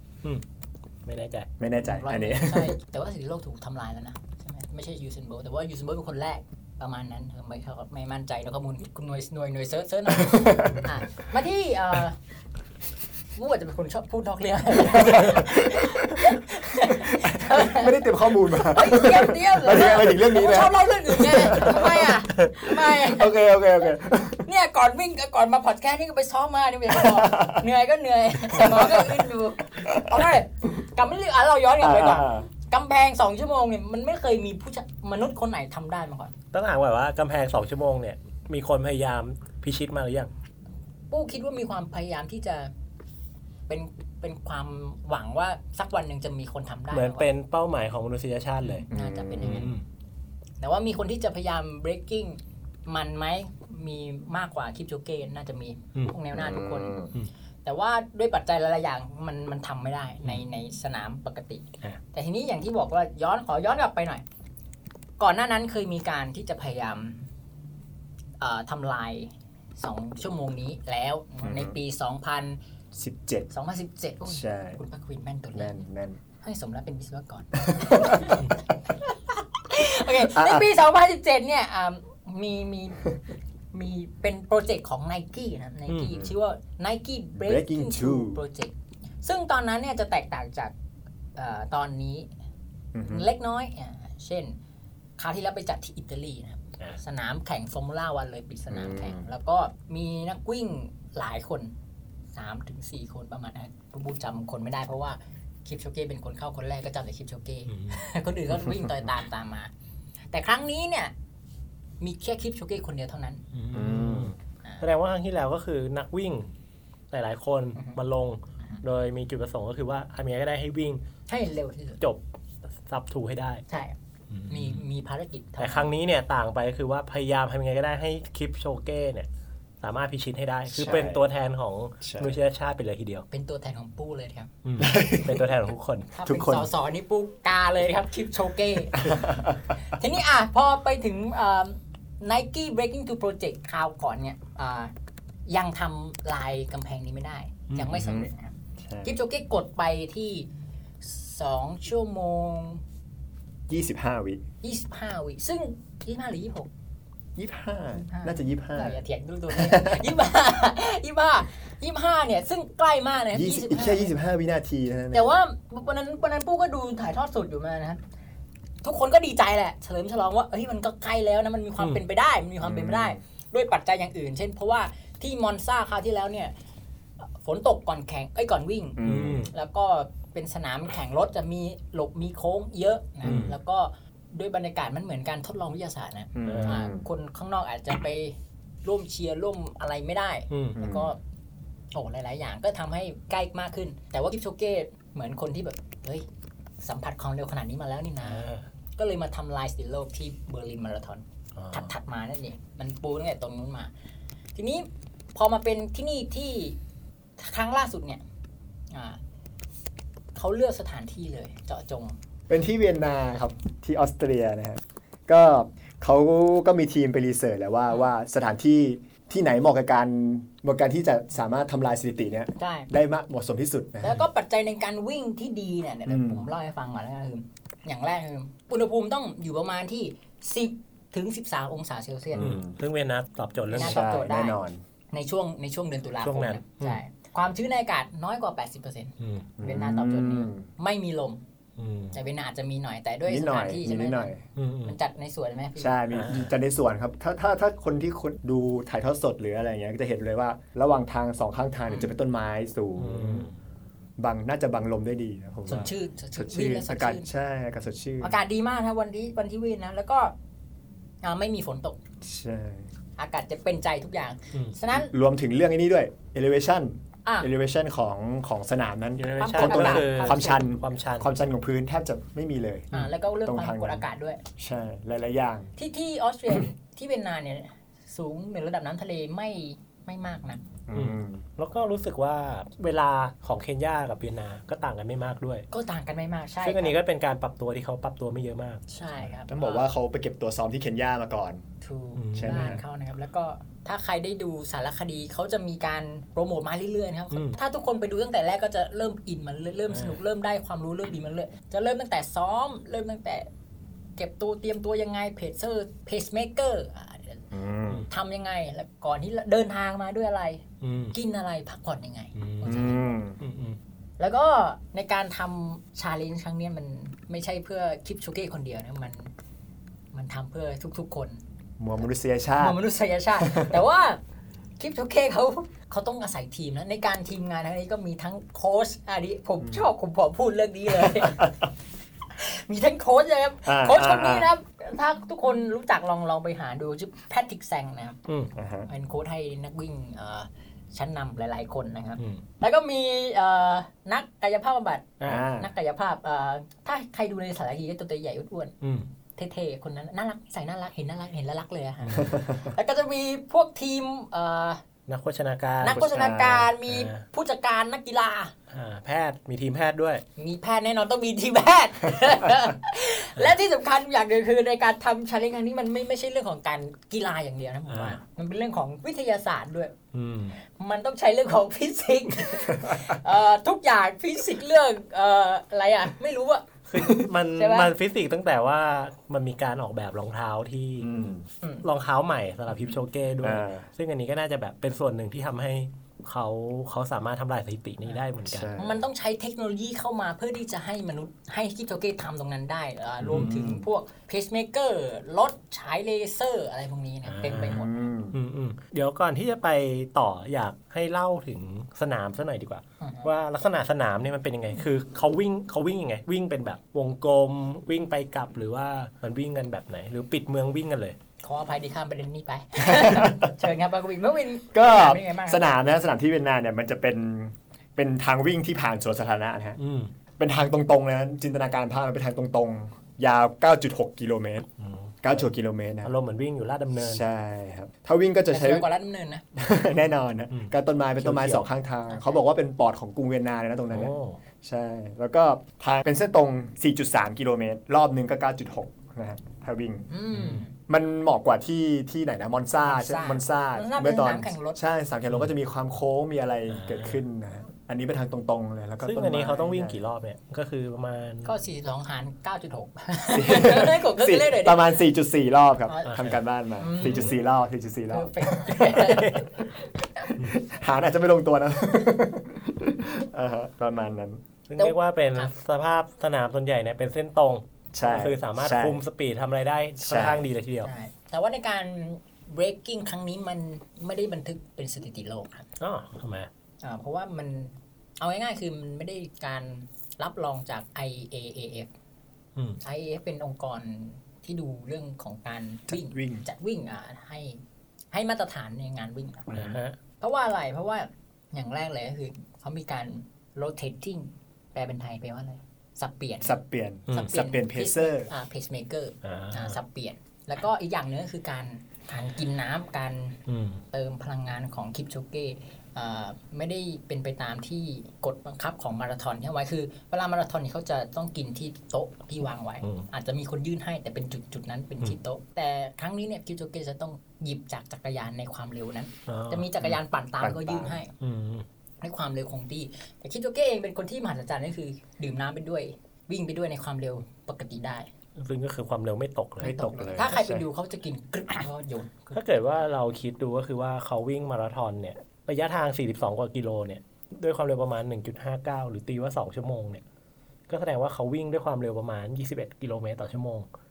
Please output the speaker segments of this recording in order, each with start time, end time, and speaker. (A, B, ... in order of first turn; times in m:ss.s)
0:01.0-0:01.5 A
0:01.6-0:02.7 B
0:01.8-0:12.2 C
0:10.1-0:10.9 B
0:13.3-0:23.3 C
0:15.1-0:16.2 B
0:17.3-0:24.4 B
0:24.4-0:36.3 C
0:26.9-0:27.6 B
0:28.6-0:29.2 B
0:29.8-0:30.3 B
0:31.8-0:32.5 B
0:36.5-0:40.3 A
0:41.1-0:42.7 C
0:43.7-0:47.3 C
0:46.9-0:48.9 A
0:48.6-0:49.7 C
0:48.9-0:49.7 B
0:49.4-0:49.8 A
0:50.6-0:57.1 C
0:56.3-0:57.1 B
0:57.6-1:04.2 C
1:05.2-1:07.3 C
1:08.4-1:12.6 C
1:11.4-1:11.8 B
1:12.9-1:13.5 B
1:13.5-1:15.8 C
1:14.2-1:14.8 B
1:15.5-1:16.2 B
1:16.4-1:23.1 C
1:17.6-1:18.5 B
1:20.1-1:20.7 B
1:23.7-1:30.7 C
1:25.9-1:26.2 A
1:27.4-1:28.4 B
1:31.4-1:32.3 C
1:32.9-1:33.3 B
1:33.0-1:34.5 C
1:35.2-1:41.7 C
1:38.7-1:39.2 B
1:42.3-1:49.7 C
1:47.7-1:48.0 A
1:50.3-1:51.1 C
1:52.0-1:53.4 C
1:53.5-1:56.5 A
1:53.7-1:54.4 B
1:57.1-2:01.0 A
2:01.3-2:02.0 C
2:02.8-2:03.6 A
2:03.7-2:04.0 C
2:04.3-2:04.8 A
2:04.5-2:05.9 C
2:05.6-2:09.3 A
2:09.8-2:13.2 A
2:10.7-2:11.2 B
2:12.0-2:12.3 B
2:13.3-2:14.5 C
2:14.6-2:16.1 A
2:14.8-2:15.4 B
2:16.1-2:19.2 C
2:16.2-2:16.7 B
2:19.0-2:19.6 B
2:19.9-2:24.9 C
2:25.5-2:30.5 C
2:27.7-2:27.9 A
2:27.9-2:28.3 B
2:28.8-2:29.1 B
2:31.0-2:32.8 C
2:33.7-2:34.4 B
2:34.6-2:36.7 C
2:37.4-2:40.1 B
2:38.0-2:44.1 C
2:43.3-2:45.3 B
2:45.1-2:48.0 C
2:48.8-2:56.5 C
2:52.6-2:53.2 B
2:57.4-3:11.2 C
2:59.0-2:59.5 B
2:59.0-2:59.5 A
3:03.2-3:03.5 B
3:06.3-3:07.0 B
3:06.4-3:06.8 A
3:10.5-3:10.8 A
3:10.7-3:11.1 B
3:11.9-3:16.2 C
3:16.8-3:23.9 C
3:18.2-3:18.7 A
3:21.6-3:21.9 A
3:24.5-3:26.8 C
3:27.4-3:28.2 C
3:28.9-3:29.2 C
3:30.3-3:32.2 C
3:32.5-3:44.2 B
3:42.6-3:42.9 C
3:44.0-3:52.6 C
3:46.1-3:46.5 B
3:52.3-3:52.7 B
3:52.4-3:54.1 A
3:53.7-3:54.6 C
3:53.7-3:54.8 B
3:55.1-4:01.4 C
3:56.2-3:57.0 A
3:59.2-3:59.5 A
3:59.6-4:00.7 B
4:01.8-4:02.2 A
4:02.1-4:04.3 C
4:03.3-4:04.4 B
4:04.6-4:05.0 A
4:04.8-4:06.0 C
4:05.8-4:13.5 B
4:06.1-4:06.5 A
4:13.0-4:13.5 A
4:14.2-4:18.4 B
4:15.7-4:17.3 C
4:18.2-4:20.3 C
4:21.2-4:22.0 C
4:22.2-4:22.9 B
4:23.2-4:25.1 C
4:24.9-4:34.0 B
4:29.2-4:31.3 A
4:29.4-4:30.6 C
4:32.9-4:34.4 C
4:34.6-4:35.7 B
4:35.8-4:40.6 C
4:40.9-4:41.4 B
4:40.9-4:45.6 A
4:45.7-4:47.0 C
4:46.6-4:48.8 A
4:48.9-4:49.9 C
4:49.5-4:51.6 B
4:51.8-5:03.5 C
4:52.2-4:52.8 A
4:52.4-4:52.8 B
4:57.3-4:57.6 A
4:59.9-5:00.2 A
5:04.2-5:07.5 C
5:07.5-5:08.1 B
5:08.1-5:13.0 C
5:10.8-5:11.1 A
5:12.4-5:13.8 A
5:12.6-5:13.4 B
5:14.2-5:19.3 C
5:20.1-5:21.4 C
5:21.8-5:22.8 B
5:22.6-5:24.2 C
5:23.4-5:23.8 B
5:24.8-5:31.5 C
5:29.6-5:29.9 B
5:31.0-5:31.7 B
5:32.3-5:38.2 C
5:33.6-5:34.5 B
5:38.3-5:38.5 A
5:38.6-5:38.9 B
5:38.9-5:48.7 C
5:45.2-5:45.5 A
5:45.2-5:45.7 B
5:48.8-5:49.1 A
5:49.4-5:54.8 C
5:52.0-5:52.3 A
5:52.2-5:52.6 B
5:55.1-5:56.0 A
5:55.8-5:58.5 C
5:55.9-5:56.7 B
5:56.8-5:57.2 A
5:58.7-6:00.2 A
6:00.4-6:09.9 C
6:07.9-6:08.2 A
6:10.1-6:10.6 A
6:10.6-6:17.9 C
6:16.9-6:21.1 A
6:21.0-6:21.5 B
6:21.8-6:28.7 A
6:23.4-6:23.9 B
6:28.4-6:29.0 B
6:28.8-6:37.9 C
6:33.2-6:33.8 B
6:37.2-6:51.2 A
6:37.5-6:38.4 B
6:43.0-6:43.3 C
6:51.4-6:55.6 C
6:52.8-6:53.5 B
6:54.7-6:59.8 B
6:59.8-7:00.1 A
7:00.4-7:04.7 B
7:04.8-7:05.4 A
7:05.2-7:06.1 B
7:06.0-7:07.2 A
7:07.0-7:08.9 B
7:08.5-7:09.4 C
7:09.5-7:20.1 B
7:10.5-7:11.6 A
7:12.1-7:12.4 C
7:13.9-7:14.4 A
7:20.1-7:20.8 C
7:20.3-7:20.6 A
7:20.9-7:30.0 B
7:22.8-7:24.8 C
7:26.7-7:27.2 A
7:29.0-7:31.5 A
7:31.4-7:35.0 C
7:33.3-7:39.4 B
7:35.9-7:36.2 C
7:36.1-7:36.4 A
7:36.8-7:37.4 C
7:37.0-7:37.3 A
7:38.1-7:40.3 C
7:38.9-7:39.4 A
7:40.4-7:44.4 B
7:44.7-7:50.9 A
7:44.8-7:45.5 C
7:47.9-7:49.0 B
7:50.0-7:50.4 B
7:50.8-7:55.7 C
7:55.8-7:56.5 A
7:56.8-8:01.9 C
8:02.8-8:07.6 C
8:05.9-8:06.4 B
8:08.1-8:09.5 C
8:09.5-8:10.0 A
8:10.2-8:16.6 C
8:16.4-8:18.3 B
8:17.1-8:17.4 A
8:17.1-8:23.4 C
8:19.2-8:19.8 A
8:23.5-8:23.8 A
8:23.9-8:41.1 C
8:39.3-8:39.7 A
8:40.4-8:41.0 B
8:41.2-8:41.6 A
8:42.0-8:48.1 C
8:48.4-8:50.2 A
8:49.6-8:50.6 B
8:49.6-8:52.4 C
8:52.3-9:00.0 A
9:00.7-9:03.7 A